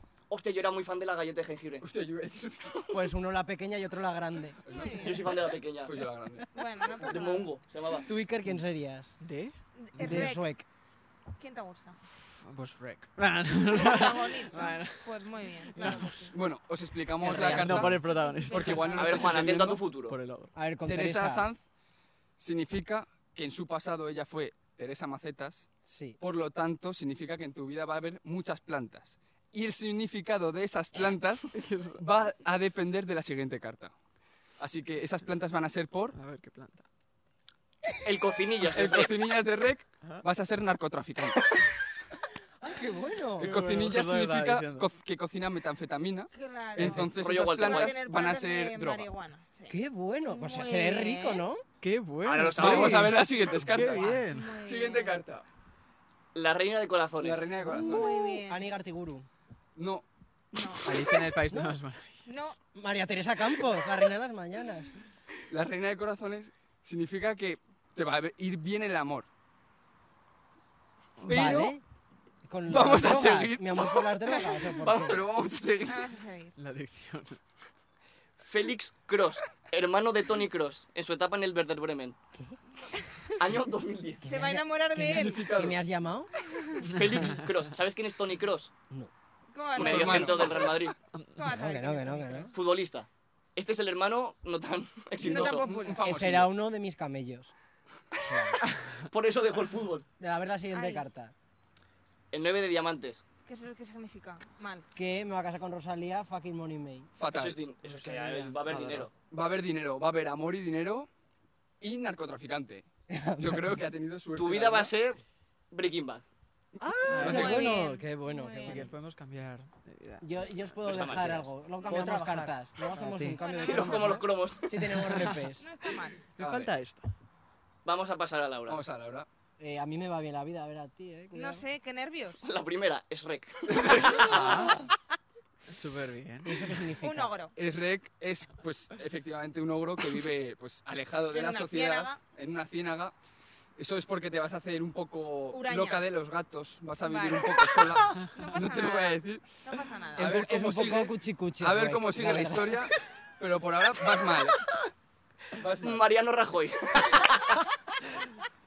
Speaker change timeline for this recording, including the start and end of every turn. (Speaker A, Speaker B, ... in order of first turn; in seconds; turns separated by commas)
Speaker A: 0.3-1.9, Speaker B: 1.8-3.0, Speaker C: 2.9-4.6, Speaker B: 4.6-7.1, Speaker D: 4.7-5.3, Speaker A: 5.0-6.0, Speaker D: 6.5-7.5, Speaker A: 7.0-8.1, Speaker C: 8.1-9.2, Speaker E: 9.2-9.6, Speaker D: 9.8-10.5, Speaker C: 9.9-10.6, Speaker D: 11.4-12.0, Speaker E: 12.1-15.2, Speaker D: 13.7-16.4, Speaker E: 15.8-16.4, Speaker B: 16.3-19.9, Speaker E: 17.2-19.4, Speaker D: 17.4-19.3, Speaker A: 18.9-20.2, Speaker E: 20.1-20.5, Speaker C: 20.6-21.5, Speaker B: 20.9-21.6, Speaker B: 22.4-25.7, Speaker C: 25.9-26.2, Speaker B: 26.2-33.9, Speaker E: 31.5-32.0, Speaker B: 34.6-36.2, Speaker E: 36.1-36.8, Speaker A: 38.0-39.2, Speaker B: 38.6-41.4, Speaker C: 42.6-43.6, Speaker B: 43.4-49.1, Speaker E: 43.4-44.9, Speaker D: 46.3-49.8, Speaker E: 46.8-47.1, Speaker A: 47.0-48.0, Speaker C: 49.7-51.6, Speaker D: 50.3-51.5, Speaker E: 51.8-54.5, Speaker A: 52.2-53.2, Speaker B: 52.5-55.5, Speaker D: 54.1-55.2, Speaker A: 56.3-57.5, Speaker B: 57.2-58.3, Speaker C: 57.6-59.3, Speaker D: 57.6-58.7, Speaker B: 59.8-61.0, Speaker D: 60.5-60.9, Speaker E: 60.9-62.2, Speaker C: 61.5-61.8, Speaker D: 62.3-62.6, Speaker C: 62.7-64.9, Speaker B: 65.5-69.3, Speaker B: 71.2-71.8, Speaker C: 71.3-71.8, Speaker C: 72.4-75.2, Speaker B: 72.7-76.1, Speaker A: 74.9-75.1, Speaker D: 75.8-76.5, Speaker E: 76.6-77.4, Speaker A: 78.4-82.2, Speaker A: 83.4-84.2, Speaker C: 84.2-86.3, Speaker D: 84.2-85.5, Speaker B: 85.0-85.8, Speaker D: 86.6-86.8, Speaker A: 86.9-88.7, Speaker E: 86.9-87.4, Speaker D: 89.5-90.8, Speaker B: 89.8-90.8, Speaker A: 89.8-91.0, Speaker E: 91.1-91.6, Speaker D: 91.3-92.5, Speaker C: 91.4-92.5, Speaker A: 92.5-95.8, Speaker B: 95.2-96.5, Speaker D: 95.2-96.0, Speaker C: 96.0-97.5, Speaker C: 98.2-98.6, Speaker A: 99.1-100.1, Speaker C: 100.2-101.3, Speaker D: 100.7-101.0, Speaker A: 102.3-103.2, Speaker D: 103.5-104.9, Speaker C: 105.0-107.1, Speaker B: 107.2-107.6, Speaker A: 107.3-109.1, Speaker E: 107.8-109.1, Speaker B: 109.3-111.1, Speaker B: 111.8-112.9, Speaker C: 113.1-113.8, Speaker B: 113.4-114.9, Speaker A: 114.3-115.2, Speaker A: 115.7-116.2, Speaker C: 116.8-118.9, Speaker E: 117.1-117.8, Speaker D: 117.2-118.9, Speaker B: 117.3-117.6, Speaker E: 118.6-120.2, Speaker C: 120.2-125.7, Speaker A: 120.8-121.5, Speaker E: 121.8-123.4, Speaker D: 123.4-124.1, Speaker A: 123.5-124.8, Speaker E: 124.8-125.5, Speaker D: 125.6-126.2, Speaker E: 126.4-127.1, Speaker B: 126.4-126.7, Speaker A: 127.8-128.8, Speaker B: 128.7-129.3, Speaker C: 129.6-131.6, Speaker D: 131.3-132.4, Speaker A: 132.4-134.4, Speaker B: 133.7-134.6, Speaker E: 134.3-134.9, Speaker E: 135.7-136.9, Speaker C: 136.4-137.4, Speaker D: 137.0-137.6, Speaker B: 137.6-143.1, Speaker D: 141.3-142.2, Speaker B: 143.8-149.4, Speaker D: 145.5-146.1, Speaker D: 147.0-150.4, Speaker C: 150.2-152.9, Speaker B: 150.2-154.7, Speaker B: 155.6-156.3, Speaker A: 155.8-157.5